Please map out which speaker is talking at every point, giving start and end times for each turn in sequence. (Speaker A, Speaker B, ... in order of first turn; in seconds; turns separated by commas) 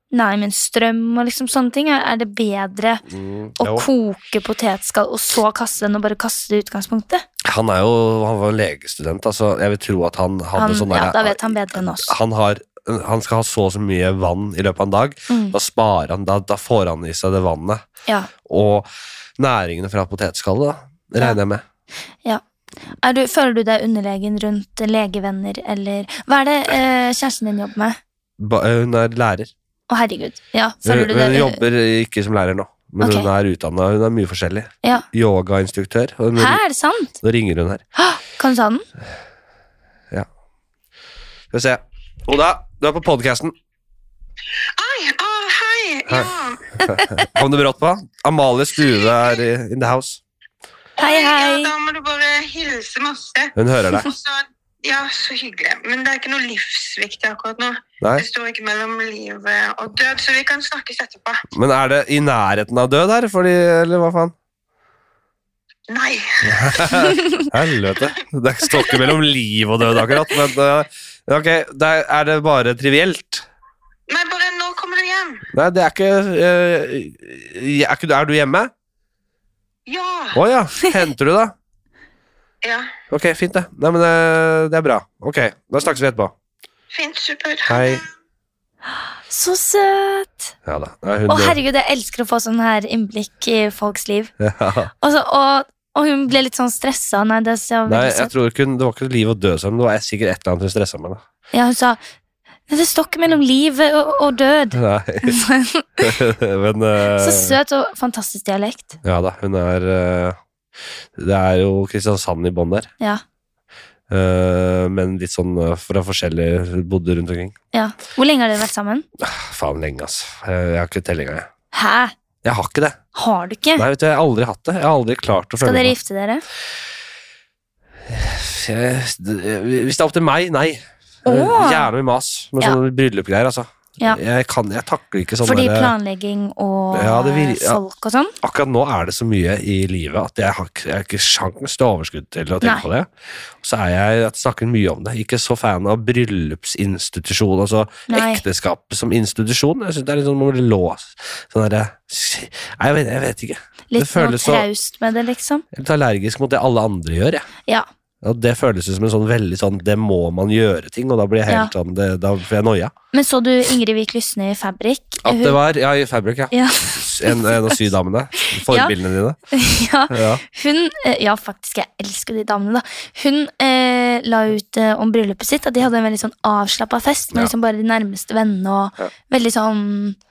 Speaker A: 0.1-3.0, Speaker B: 3.1-3.9, Speaker A: 3.6-7.2, Speaker B: 7.4-17.8, Speaker A: 10.5-12.1, Speaker A: 15.3-15.6, Speaker B: 18.4-21.6, Speaker A: 23.0-28.0, Speaker B: 28.4-29.5, Speaker A: 29.9-31.6, Speaker B: 30.8-36.6, Speaker A: 33.0-33.3, Speaker A: 36.4-37.1, Speaker B: 37.2-37.8, Speaker A: 38.0-38.8, Speaker B: 41.5-43.5, Speaker C: 44.8-46.8, Speaker B: 46.1-50.2, Speaker C: 51.0-61.4, Speaker A: 51.0-51.7, Speaker B: 53.5-54.1, Speaker B: 61.5-64.3, Speaker C: 65.9-67.1, Speaker B: 66.4-73.4, Speaker C: 74.1-75.4, Speaker B: 75.5-78.7, Speaker C: 79.9-80.4, Speaker B: 80.3-81.5, Speaker C: 82.6-82.9, Speaker B: 83.1-86.3, Speaker C: 86.9-88.0, Speaker B: 87.7-88.0, Speaker A: 88.9-90.5, Speaker B: 90.6-91.6, Speaker A: 91.3-94.3, Speaker B: 94.4-94.9, Speaker A: 95.0-98.3, Speaker B: 97.9-101.2, Speaker A: 101.5-102.0, Speaker A: 102.7-106.1, Speaker B: 104.7-105.4, Speaker B: 106.0-107.6, Speaker A: 107.1-109.0, Speaker B: 109.0-110.4, Speaker B: 111.2-112.9, Speaker B: 114.1-117.5, Speaker A: 117.7-119.0, Speaker B: 119.2-121.5, Speaker A: 121.7-122.1, Speaker B: 122.4-123.0, Speaker A: 123.1-123.8, Speaker B: 123.8-125.9, Speaker A: 125.6-126.4, Speaker B: 128.1-135.9, Speaker A: 131.2-131.9, Speaker A: 135.4-138.3, Speaker B: 136.9-137.8, Speaker B: 138.4-143.1, Speaker A: 142.6-142.9, Speaker B: 143.6-154.7, Speaker A: 148.1-148.4, Speaker A: 153.9-155.6, Speaker B: 155.7-157.5, Speaker B: 158.2-162.9, Speaker A: 163.1-165.6, Speaker B: 165.2-169.4, Speaker A: 166.5-167.8, Speaker A: 168.7-168.9, Speaker A: 169.5-180.2, Speaker B: 170.1-170.4